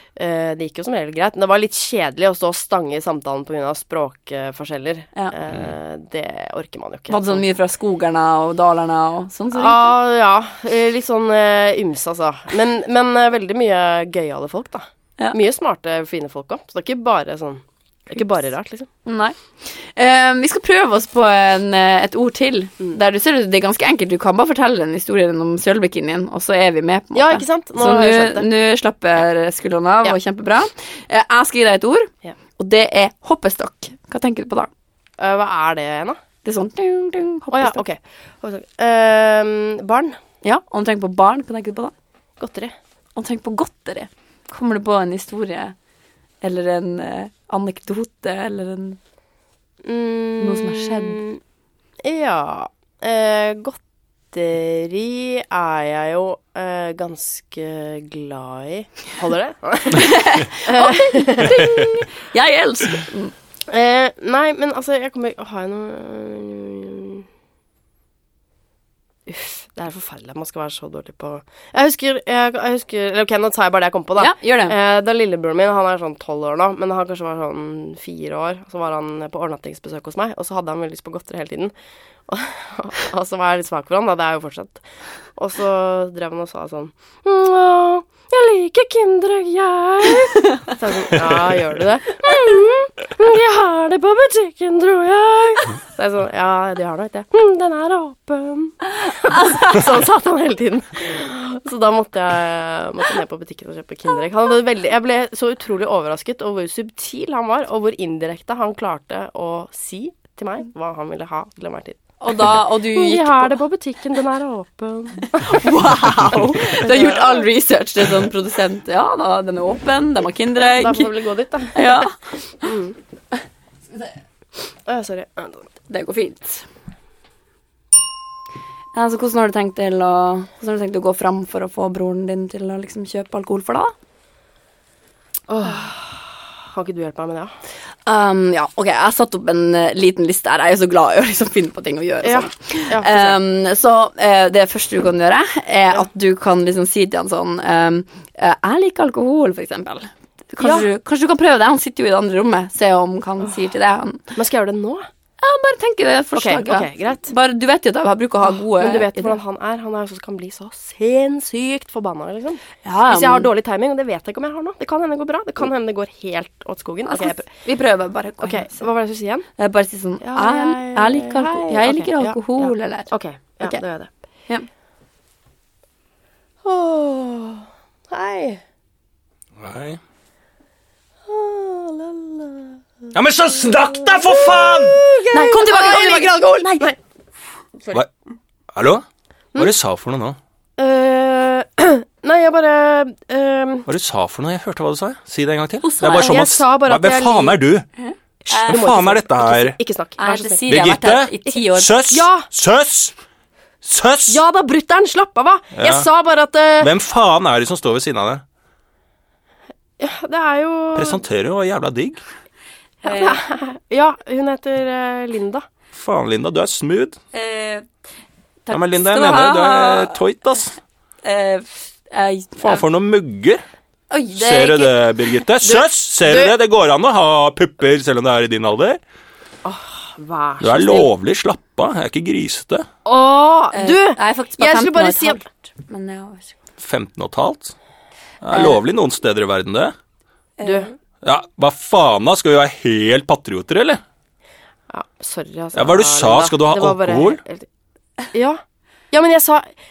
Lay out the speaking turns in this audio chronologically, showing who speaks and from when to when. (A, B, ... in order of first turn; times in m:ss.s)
0:00.2-0:07.4 A
0:07.1-0:09.9 B
0:09.5-0:18.9 A
0:19.0-0:34.7 B
0:27.1-0:28.5 A
0:35.2-0:36.2 A
0:36.4-0:37.8 B
0:37.5-0:40.2 A
0:40.4-0:41.9 B
0:42.4-0:42.8 A
0:43.2-0:45.7 B
0:46.4-0:49.0 B
0:49.8-0:51.4 A
0:50.4-0:51.2 B
0:52.0-1:01.9 A
0:59.9-1:03.3 B
1:03.7-1:07.2 A
1:09.3-1:21.7 A
1:14.2-1:14.8 B
1:22.3-1:24.8 A
1:25.4-1:55.8 A
1:52.2-1:53.6 B
1:55.4-2:01.1 B
1:56.6-1:57.5 A
2:00.6-2:02.1 A
2:01.7-2:02.1 B
2:02.6-2:03.0 A
2:04.8-2:05.7 A
2:05.9-2:06.6 B
2:08.9-2:13.9 B
2:15.5-2:17.5 A
2:18.0-2:34.3 B
2:22.2-2:23.4 A
2:30.6-2:30.9 A
2:34.3-2:35.1 A
2:35.4-2:39.4 B
2:36.3-2:37.3 A
2:38.4-2:47.4 A
2:42.8-2:43.5 B
2:47.0-2:48.8 B
2:48.4-2:49.4 A
2:49.6-2:53.1 B
2:50.2-2:54.1 A
2:56.6-2:58.6 A
2:59.6-3:00.0 C
3:01.2-3:07.0 A
3:03.1-3:05.0 C
3:05.3-3:06.9 B
3:08.7-3:09.0 C
3:09.6-3:10.4 C
3:10.8-3:13.9 A
3:13.9-3:17.8 C
3:15.8-3:16.5 B
3:16.1-3:17.6 A
3:18.0-3:18.8 B
3:18.5-3:19.8 C
3:18.6-3:20.6 A
3:20.2-3:21.9 B
3:20.7-3:23.1 C
3:22.1-3:22.5 A
3:23.8-3:24.4 C
3:24.3-3:26.9 A
3:25.7-3:26.1 C
3:26.8-3:28.4 C
3:30.0-3:31.2 A
3:31.0-3:32.2 C
3:33.0-3:35.7 A
3:33.0-3:33.4 B
3:35.9-3:37.2 C
3:37.3-3:37.8 B
3:38.7-3:40.2 B
3:38.7-3:40.7 C
3:41.2-3:42.8 B
3:42.6-3:43.6 C
3:44.1-3:45.3 B
3:44.3-3:49.0 C
3:45.6-3:46.6 A
3:49.6-3:51.1 A
3:50.6-3:52.9 C
3:53.0-3:55.4 A
3:53.7-3:56.5 B
3:56.8-3:57.7 C
3:58.4-3:59.9 C
4:00.6-4:00.9 B
4:00.6-4:00.9 A
4:01.2-4:04.0 C
4:04.9-4:07.7 A
4:05.7-4:07.4 C
4:08.3-4:09.7 A